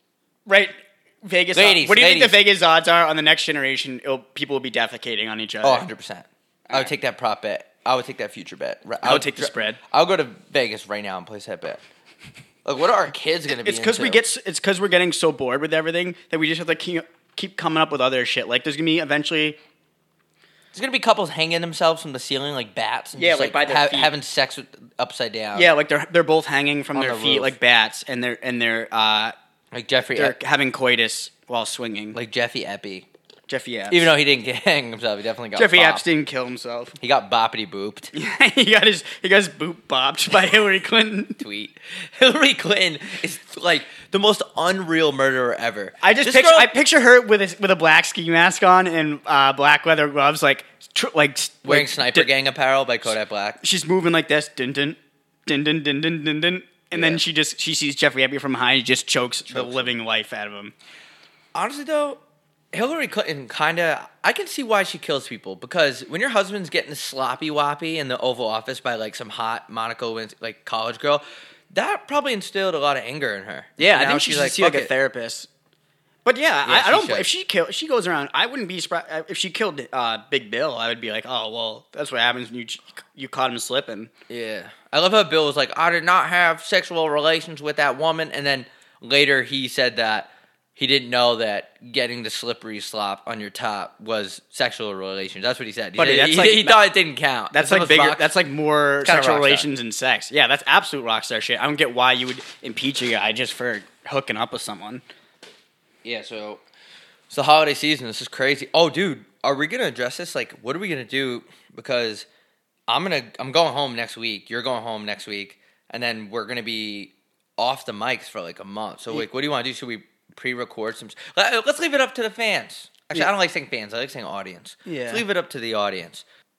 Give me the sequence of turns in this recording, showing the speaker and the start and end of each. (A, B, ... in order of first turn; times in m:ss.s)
0:00.4-0:05.8 A
0:01.5-0:02.4 B
0:05.6-0:11.8 B
0:09.0-0:09.8 A
0:12.6-0:14.2 B
0:13.5-0:19.6 A
0:20.7-0:25.7 B
0:23.2-0:24.1 A
0:25.5-0:29.3 A
0:26.9-0:27.5 B
0:29.7-0:30.3 B
0:30.1-0:32.2 A
0:32.1-0:33.0 B
0:33.5-0:34.1 A
0:33.9-0:36.0 B
0:35.5-0:37.0 A
0:37.0-0:38.1 B
0:38.1-0:41.4 A
0:41.4-0:46.7 B
0:46.0-0:52.3 A
0:51.6-0:53.6 B
0:53.6-1:00.7 A
0:56.9-0:57.2 B
0:59.5-0:59.9 B
1:01.5-1:02.2 B
1:02.7-1:14.9 B
1:13.8-1:15.5 A
1:16.2-1:24.1 A
1:16.6-1:17.3 B
1:24.3-1:38.3 B
1:36.0-1:36.8 A
1:37.5-1:45.0 A
1:39.0-1:39.7 B
1:46.0-1:46.6 B
1:47.3-1:52.2 B
1:52.9-2:06.2 B
2:04.8-2:05.2 A